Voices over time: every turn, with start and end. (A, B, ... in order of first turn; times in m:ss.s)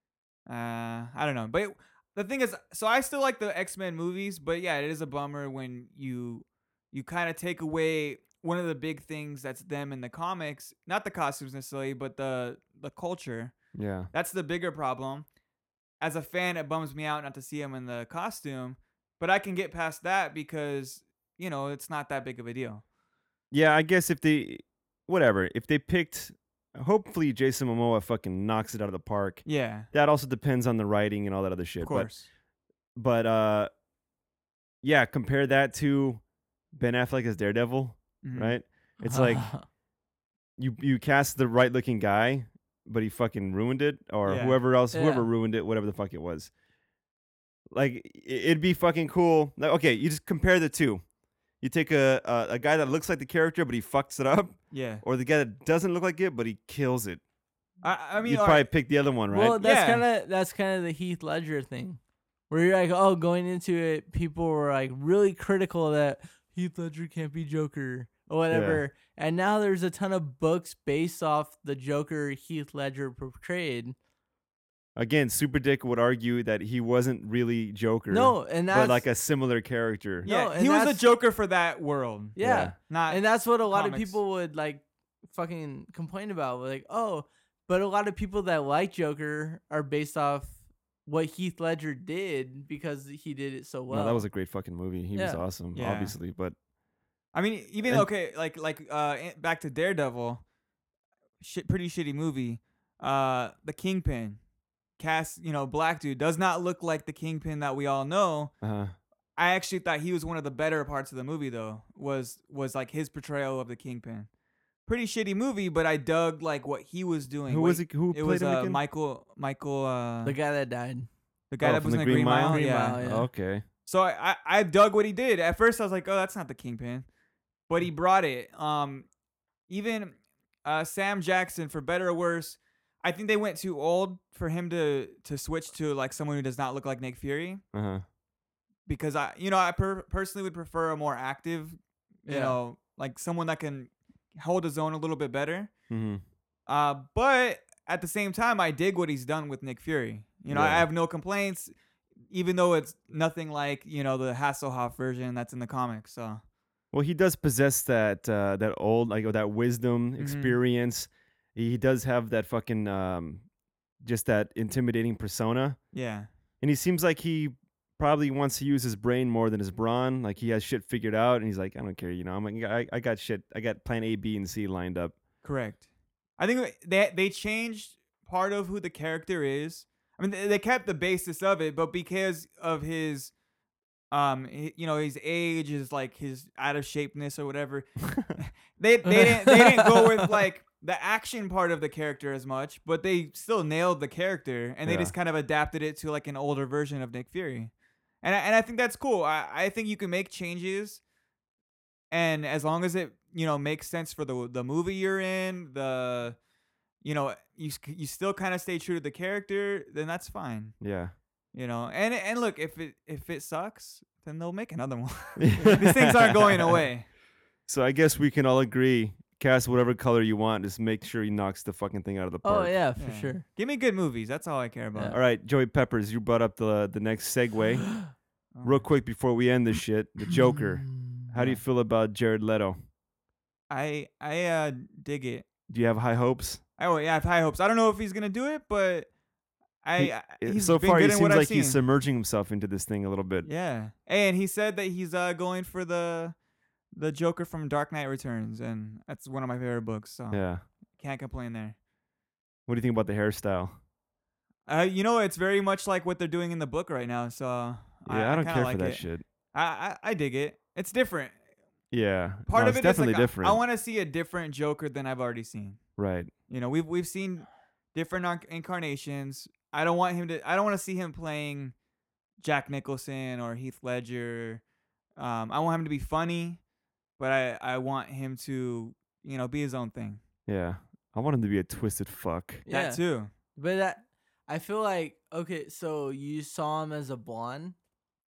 0:00.5-0:13.6 A
0:13.7-0:14.1 B
0:14.1-0:15.3 A
0:16.0-0:22.8 A
0:23.5-0:32.1 B
0:29.4-0:29.9 A
0:31.8-0:32.3 A
0:33.0-0:33.7 B
0:34.8-0:36.2 B
0:36.7-0:39.5 B
0:38.2-0:38.6 A
0:39.0-0:39.6 C
0:40.6-0:46.5 B
0:44.2-0:44.6 A
0:44.9-0:45.3 C
0:47.7-0:51.0 B
0:51.6-0:57.2 B
0:54.7-0:55.0 A
0:57.8-0:58.7 A
0:58.2-0:59.6 B
0:59.3-1:14.0 C
0:59.6-1:00.0 A
1:08.5-1:08.8 B
1:15.0-1:20.3 B
1:18.1-1:19.0 C
1:20.2-1:21.0 C
1:20.2-1:24.2 A
1:22.4-1:34.2 C
1:22.4-1:22.8 B
1:33.9-1:36.5 B
1:35.1-1:35.4 C
1:35.7-1:36.2 A
1:37.3-1:40.4 A
1:41.4-1:44.4 A
1:45.0-1:48.5 A
1:48.6-1:48.9 B
1:49.4-1:54.3 A
1:54.8-2:00.4 A
1:57.5-1:58.8 B
2:00.2-2:01.1 C
2:01.5-2:03.0 A
2:01.6-2:03.6 B
2:02.5-2:03.3 C
2:03.8-2:07.1 A
2:07.7-2:09.1 A
2:09.7-2:17.6 A
2:17.7-2:18.0 B
2:18.8-2:25.7 A
2:22.3-2:22.6 C
2:25.9-2:26.2 B
2:26.7-2:31.7 A
2:30.5-2:30.9 B
2:32.3-2:36.4 A
2:36.9-2:43.4 B
2:40.2-2:40.6 A
2:44.0-2:45.8 B
2:45.9-2:46.3 A
2:46.6-2:55.2 B
2:55.4-2:55.8 A
2:56.4-3:03.3 A
3:04.1-3:17.7 A
3:09.2-3:10.0 C
3:14.8-3:15.1 B
3:18.2-3:21.0 A
3:22.1-3:26.4 A
3:27.0-3:30.8 A
3:30.8-3:31.1 B
3:31.5-3:37.1 A
3:35.4-3:36.8 B
3:37.7-3:42.7 B
3:42.4-3:43.4 C
3:43.0-3:45.2 A
3:45.1-3:47.9 B
3:48.5-3:48.8 A
3:48.6-3:52.8 B
3:50.9-3:51.2 C
3:51.4-3:51.6 A
3:53.7-3:55.5 A
3:55.7-3:56.6 B
3:56.8-3:59.1 A
3:59.8-4:01.8 A
4:00.0-4:03.5 B
4:03.4-4:06.4 A
4:06.9-4:11.8 A
4:10.3-4:10.6 B
4:12.7-4:13.8 B
4:14.7-4:21.3 A
4:18.0-4:19.2 B
4:21.9-4:23.6 B
4:22.5-4:25.8 A
4:26.0-4:26.3 B
4:26.5-4:31.7 A
4:32.4-4:34.6 A
4:35.2-4:36.6 A
4:37.2-4:40.2 A
4:40.5-4:42.6 B
4:42.7-4:43.0 C
4:42.7-4:43.3 A
4:43.5-4:47.8 C